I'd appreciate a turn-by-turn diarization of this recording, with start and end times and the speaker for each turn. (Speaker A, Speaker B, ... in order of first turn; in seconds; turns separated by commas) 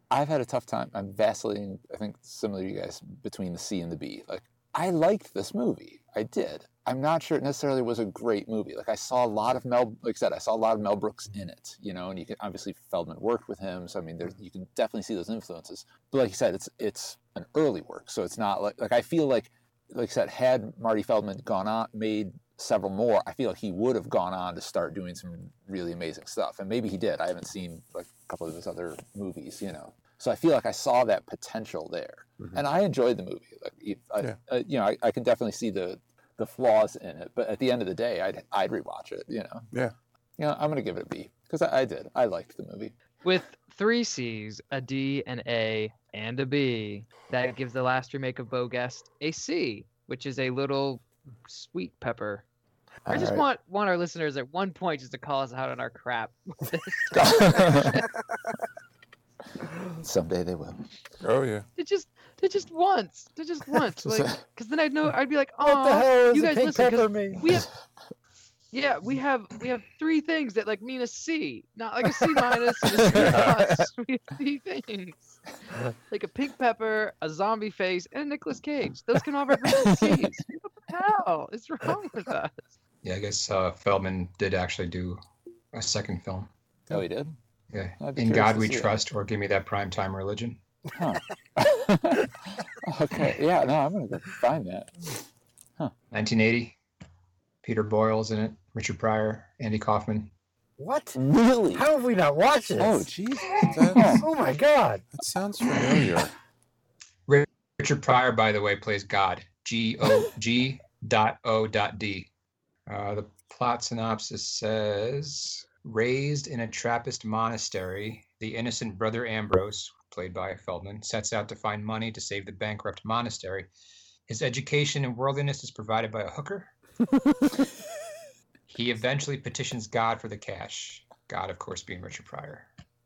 Speaker A: 0.1-39.7, Speaker A: 40.4-42.9, Speaker B: 43.2-52.4, Speaker A: 53.0-53.5, Speaker B: 53.1-58.0, Speaker A: 57.1-58.0, Speaker A: 60.0-60.9, Speaker C: 61.2-61.7, Speaker B: 61.8-67.7, Speaker A: 64.0-64.4, Speaker D: 65.6-67.5, Speaker B: 68.7-75.4, Speaker A: 72.9-73.5, Speaker C: 73.1-73.6, Speaker B: 76.1-82.6, Speaker A: 79.7-80.4, Speaker E: 83.0-85.2, Speaker E: 85.7-86.5, Speaker A: 86.9-87.4, Speaker E: 87.7-90.6, Speaker A: 88.0-89.0, Speaker A: 90.9-95.1, Speaker E: 96.1-96.8, Speaker E: 97.6-100.3, Speaker D: 100.8-101.2, Speaker A: 101.1-101.8, Speaker D: 101.7-103.1, Speaker A: 102.8-104.2, Speaker C: 103.1-104.2, Speaker D: 103.6-105.0, Speaker C: 105.1-106.3, Speaker E: 107.3-112.3, Speaker E: 112.9-123.7, Speaker E: 124.3-126.7, Speaker E: 128.7-132.7